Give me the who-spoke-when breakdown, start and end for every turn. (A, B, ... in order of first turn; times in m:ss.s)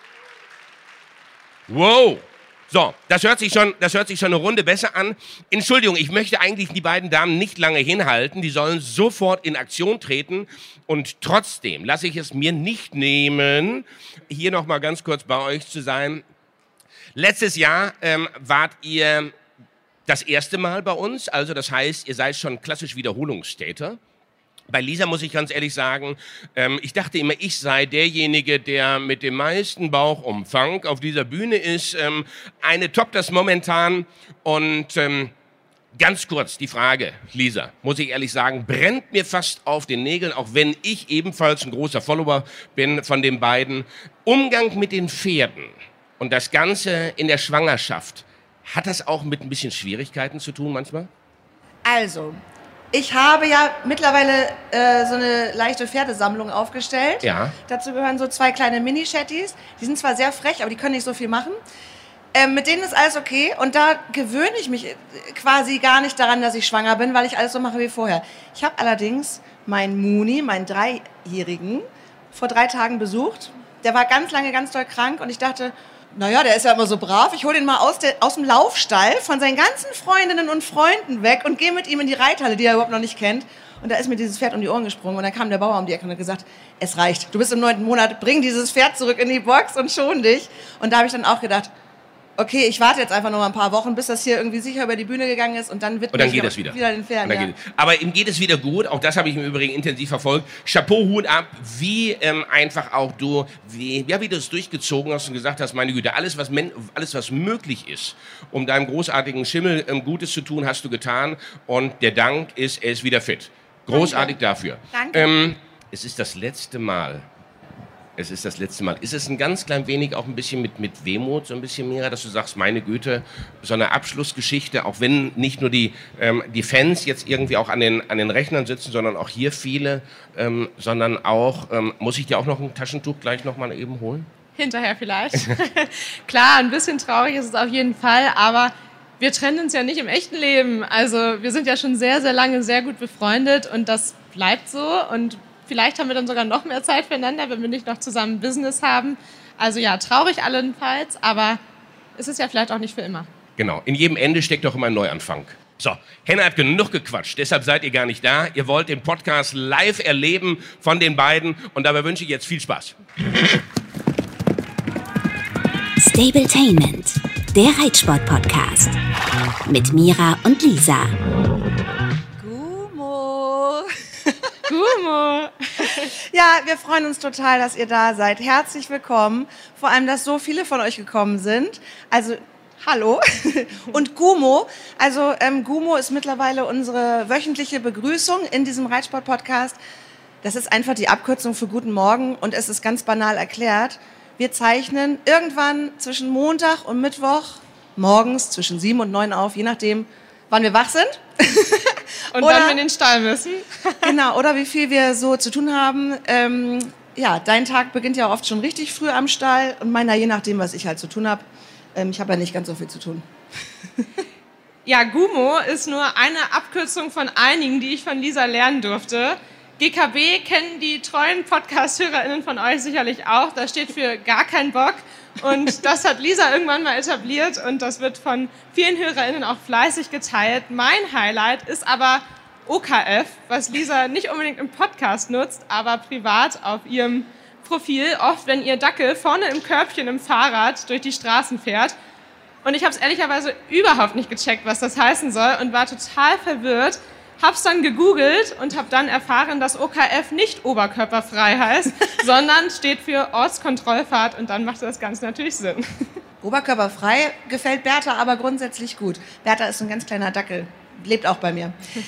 0:01.7-0:16.2 A
0:17.2-0:19.3 A
0:20.1-0:24.0 A
0:24.7-0:35.3 A
0:36.0-0:51.1 A
0:51.8-0:52.4 B
0:52.9-1:01.6 B
0:57.2-0:57.6 A
1:02.3-1:31.7 B
1:32.4-1:37.5 B
1:36.1-1:57.2 A
1:53.9-1:54.4 B
1:54.9-1:55.3 B
1:58.2-2:14.3 A
2:14.6-2:31.6 C
2:32.2-2:33.3 C
2:33.6-2:43.0 A
2:46.0-2:49.0 D
2:49.7-2:51.1 D
2:52.4-2:54.6 B
2:54.7-2:56.1 C
2:56.3-3:09.8 B
3:10.4-3:22.8 B
3:22.3-3:24.1 C
3:24.0-3:33.2 B
3:34.8-4:01.9 C
4:02.6-4:16.1 C
4:16.4-4:21.8 B